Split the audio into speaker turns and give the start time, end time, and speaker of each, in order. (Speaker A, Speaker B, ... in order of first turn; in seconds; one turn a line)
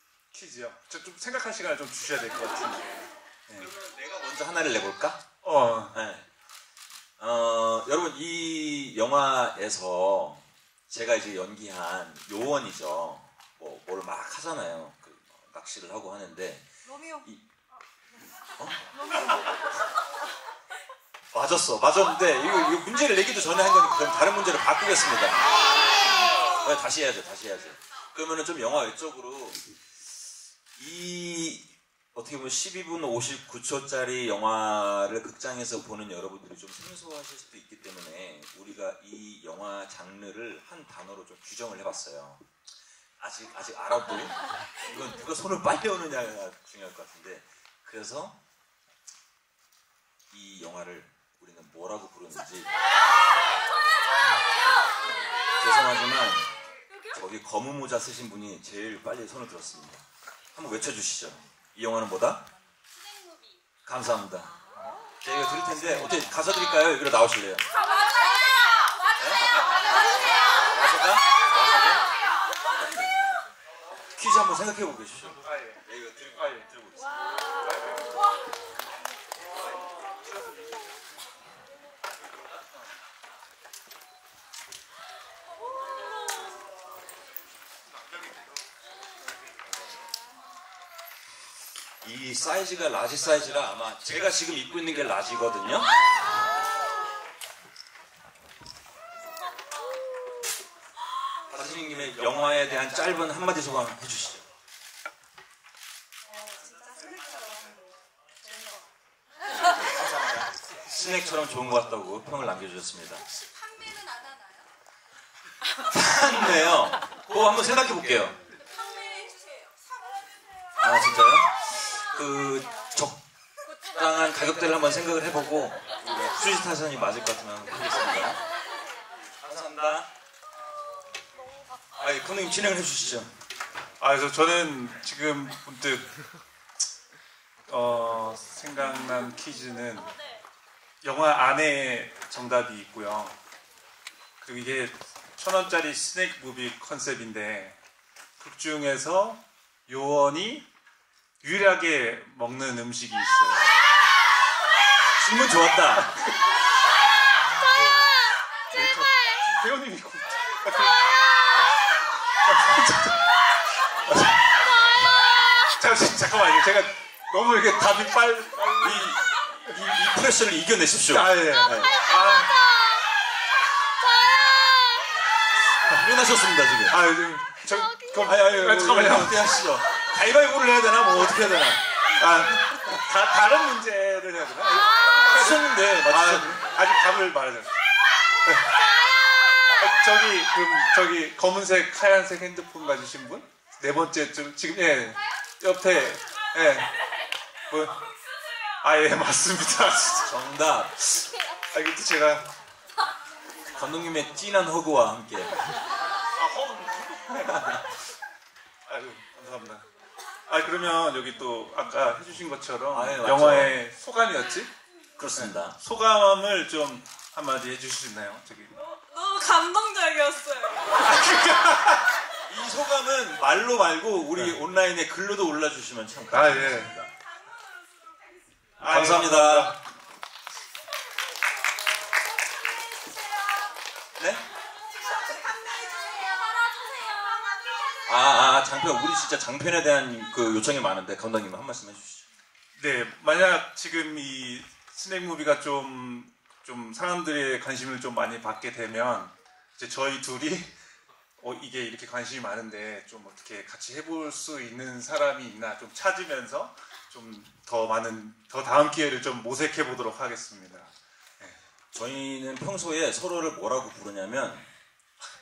Speaker A: 0.3-3.7
Speaker B: 3.6-5.2
Speaker A: 5.4-6.0
Speaker B: 5.9-6.3
Speaker B: 7.2-17.4
Speaker B: 18.6-19.3
Speaker B: 21.3-25.6
Speaker B: 26.5-29.6
Speaker B: 30.8-42.4
Speaker B: 43.2-48.4
Speaker B: 50.3-52.7
Speaker B: 55.6-56.5
Speaker B: 57.1-62.5
Speaker B: 63.9-64.6
Speaker B: 65.2-67.7
Speaker B: 69.2-69.7
Speaker B: 70.6-72.0
Speaker B: 72.7-73.1
Speaker B: 74.2-77.2
Speaker A: 75.4-75.8
Speaker A: 76.4-76.7
Speaker B: 89.7-90.1
Speaker B: 92.0-95.9
Speaker B: 101.5-104.5
Speaker B: 110.9-113.2
Speaker C: 113.6-114.3
Speaker B: 115.9-118.4
Speaker B: 120.8-123.2
Speaker B: 123.9-128.4
Speaker B: 129.4-130.1
Speaker B: 132.0-133.3
Speaker A: 134.0-136.1
Speaker A: 137.7-140.2
Speaker A: 141.0-143.4
Speaker A: 144.4-147.8
Speaker A: 148.4-150.7
Speaker A: 151.4-153.8
Speaker B: 155.2-156.1
Speaker A: 158.7-161.0
Speaker A: 162.5-163.2
Speaker A: 164.0-164.4
Speaker A: 165.8-169.1
Speaker B: 168.8-172.0
Speaker A: 171.1-172.6
Speaker B: 175.8-177.0
Speaker A: 176.9-179.4
Speaker B: 178.2-181.8
Speaker A: 182.2-187.7
Speaker B: 185.1-186.8
Speaker A: 188.4-188.7
Speaker A: 189.8-196.9
Speaker A: 197.7-198.0
Speaker A: 198.8-200.3
Speaker B: 200.3-201.1
Speaker A: 201.7-202.5
Speaker B: 203.7-205.6
Speaker A: 206.3-207.8
Speaker A: 208.9-209.8
Speaker A: 210.5-214.7
Speaker B: 212.9-213.8
Speaker B: 215.2-215.8
Speaker A: 215.4-218.7
Speaker C: 219.1-220.9
Speaker A: 220.9-222.1
Speaker B: 222.4-227.2
Speaker A: 226.3-227.0
Speaker A: 228.8-229.8
Speaker B: 228.8-229.8
Speaker B: 234.2-234.4
Speaker C: 235.3-237.4
Speaker B: 238.0-242.2
Speaker A: 242.8-250.7
Speaker A: 251.4-261.6
Speaker B: 261.9-264.7